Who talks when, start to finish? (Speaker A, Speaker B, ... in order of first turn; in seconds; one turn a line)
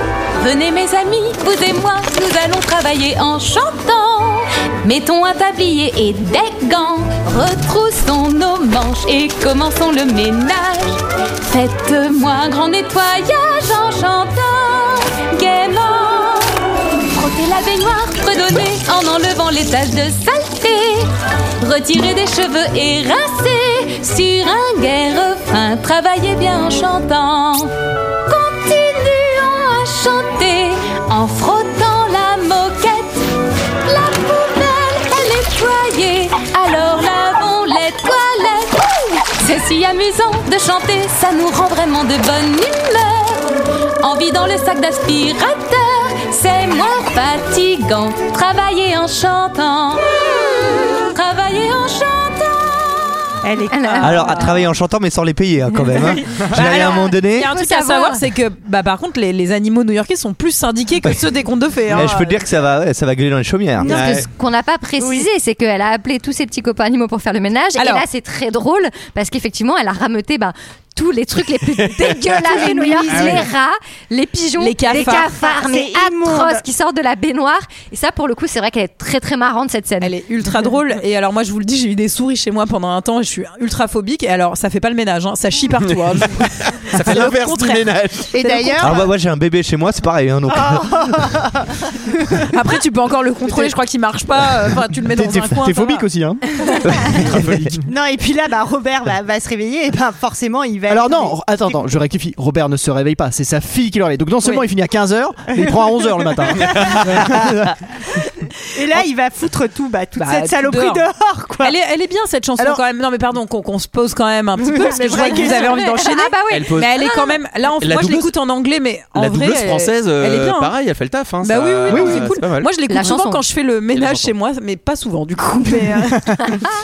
Speaker A: 0.4-16.5
Speaker A: 17.1-21.1
Speaker A: 21.6-27.7
Speaker A: 28.3-33.3
Speaker A: 33.8-53.3
Speaker B: 53.4-54.5
Speaker C: 53.7-54.5
Speaker D: 54.0-57.5
Speaker B: 56.1-56.4
Speaker E: 56.5-62.4
Speaker C: 57.4-58.2
Speaker D: 61.9-64.0
Speaker B: 63.8-64.2
Speaker C: 63.8-80.1
Speaker F: 63.8-64.3
Speaker B: 65.0-65.3
Speaker E: 67.8-68.0
Speaker F: 71.7-73.2
Speaker E: 72.6-73.4
Speaker E: 74.6-75.3
Speaker B: 74.9-76.7
Speaker E: 80.0-89.0
Speaker F: 86.2-88.3
Speaker G: 88.5-88.8
Speaker D: 88.8-91.3
Speaker B: 90.5-91.4
Speaker E: 92.5-96.0
Speaker G: 95.0-96.4
Speaker D: 96.9-97.7
Speaker G: 96.9-97.8
Speaker B: 97.8-101.8
Speaker G: 100.9-107.8
Speaker B: 105.5-107.3
Speaker F: 106.6-107.1
Speaker B: 108.7-111.7
Speaker E: 110.2-111.0
Speaker E: 111.6-120.7
Speaker B: 114.8-115.7
Speaker C: 115.6-117.4
Speaker F: 116.5-117.0
Speaker F: 117.8-118.3
Speaker F: 119.1-122.7
Speaker E: 121.4-126.3
Speaker G: 121.9-122.3
Speaker C: 122.9-123.4
Speaker F: 123.9-124.3
Speaker G: 125.9-126.5